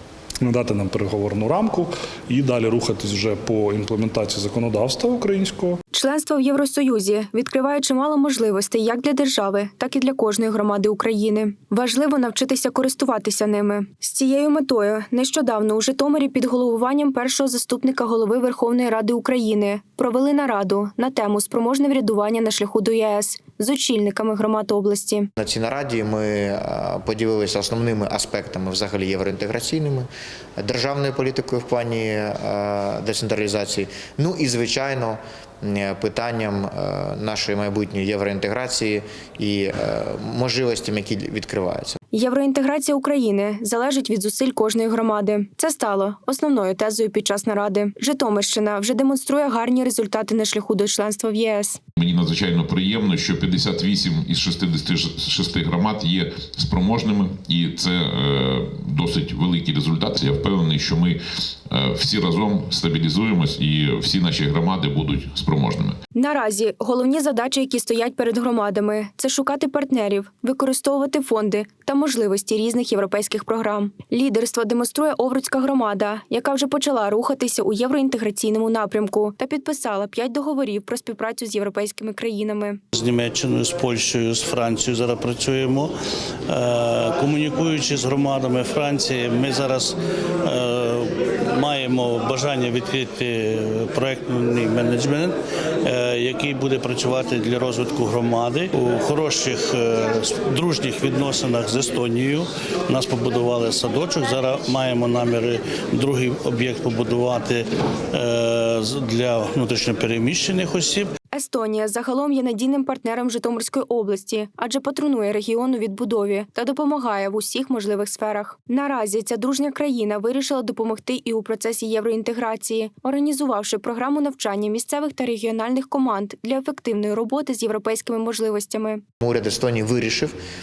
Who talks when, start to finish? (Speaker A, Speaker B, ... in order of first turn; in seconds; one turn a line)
Speaker A: 0.4-5.8
Speaker B: 5.9-25.3
Speaker C: 25.4-42.0
Speaker B: 42.1-51.8
Speaker D: 52.0-61.2
Speaker D: 61.7-65.9
Speaker B: 66.2-82.8
Speaker E: 82.9-85.9
Speaker E: 86.5-111.1
Speaker B: 111.3-129.0
Speaker C: 129.2-130.3